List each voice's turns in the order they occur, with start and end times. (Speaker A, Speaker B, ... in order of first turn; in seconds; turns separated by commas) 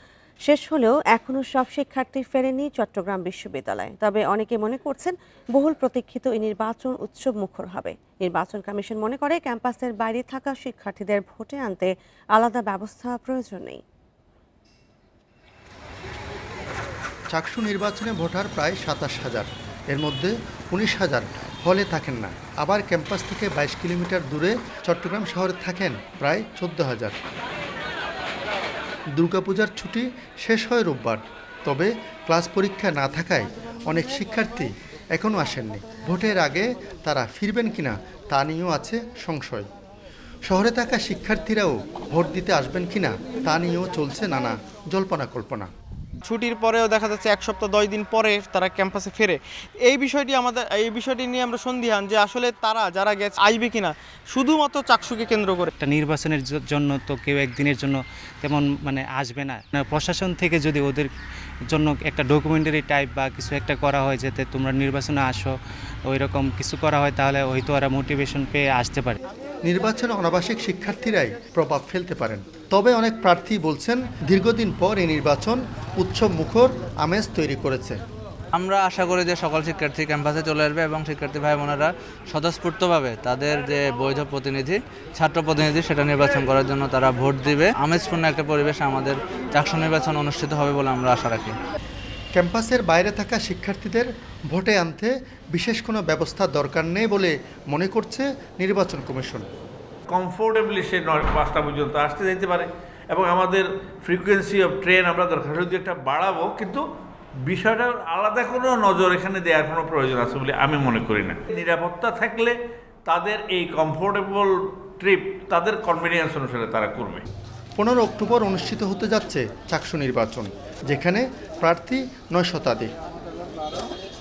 Speaker A: 0.5-13.8, Speaker B: 17.3-27.2, Speaker B: 29.1-39.7, Speaker B: 40.5-45.7, Speaker C: 46.2-55.7, Speaker D: 55.8-61.1, Speaker D: 61.7-65.5, Speaker D: 66.1-69.2, Speaker B: 69.6-78.0, Speaker E: 78.5-91.5, Speaker B: 92.3-99.5, Speaker F: 100.1-106.8, Speaker F: 107.5-117.2, Speaker B: 117.8-122.9